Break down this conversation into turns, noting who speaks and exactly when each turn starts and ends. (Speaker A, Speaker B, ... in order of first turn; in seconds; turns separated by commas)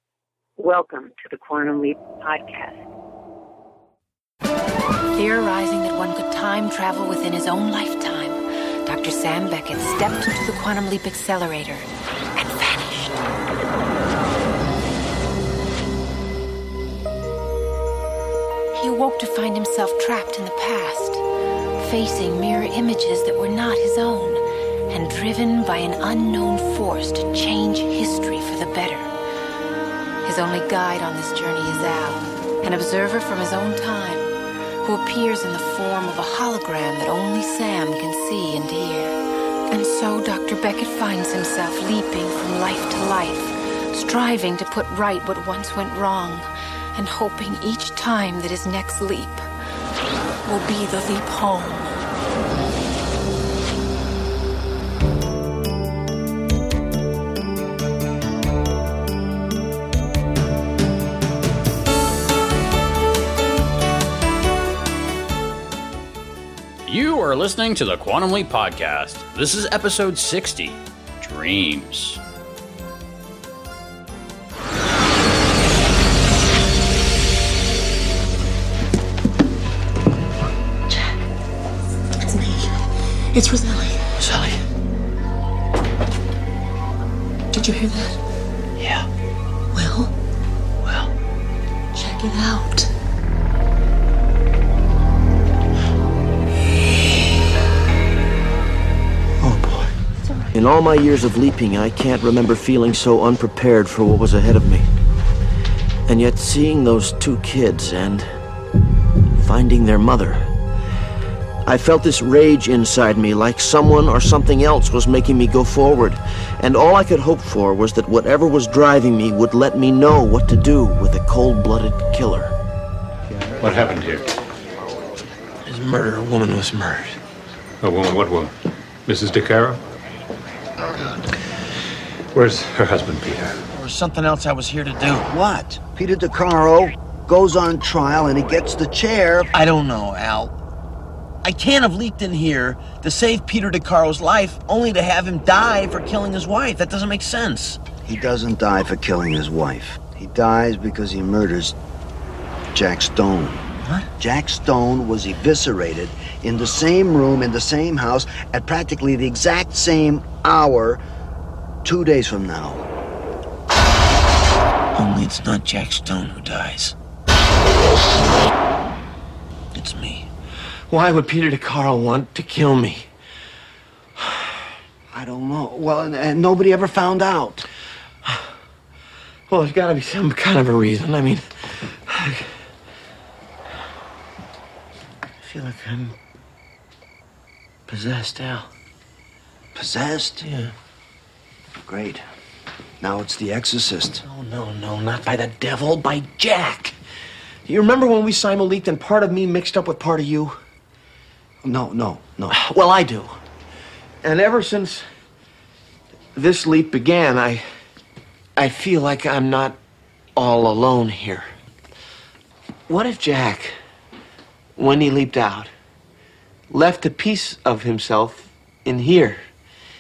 Speaker A: 0.6-2.8, Speaker B: 5.1-13.3, Speaker B: 18.7-21.2, Speaker B: 21.8-29.1, Speaker B: 30.2-34.3, Speaker B: 34.8-39.2, Speaker B: 39.7-49.5, Speaker B: 50.5-52.0, Speaker C: 66.9-72.2, Speaker D: 83.4-83.9, Speaker D: 87.5-88.1, Speaker D: 89.8-90.1, Speaker D: 92.0-92.9, Speaker E: 100.5-104.9, Speaker E: 106.1-108.4, Speaker E: 109.4-110.5, Speaker E: 111.7-122.5, Speaker F: 123.6-124.3, Speaker E: 125.7-127.2, Speaker F: 127.8-128.5, Speaker F: 129.1-129.8, Speaker F: 130.8-131.3, Speaker F: 132.3-133.6, Speaker E: 133.7-135.3, Speaker G: 135.3-139.5, Speaker E: 139.5-140.5, Speaker E: 141.4-147.8, Speaker G: 148.0-151.8, Speaker G: 152.7-153.7, Speaker E: 153.8-154.1, Speaker G: 154.2-161.0, Speaker G: 161.8-162.8, Speaker E: 165.0-166.9, Speaker E: 169.7-170.3, Speaker E: 170.9-173.1, Speaker G: 175.1-177.7, Speaker E: 179.5-182.5, Speaker E: 185.4-186.2, Speaker E: 187.9-188.7, Speaker G: 189.8-190.5, Speaker E: 190.4-190.7, Speaker G: 191.8-192.2, Speaker G: 193.0-194.2, Speaker E: 194.2-196.9, Speaker E: 197.7-200.6, Speaker G: 201.6-202.6, Speaker E: 202.5-203.4, Speaker E: 204.2-205.1, Speaker E: 206.3-207.6, Speaker E: 208.6-209.8, Speaker E: 210.4-211.5, Speaker E: 212.9-213.8, Speaker E: 214.8-215.7, Speaker E: 216.7-219.4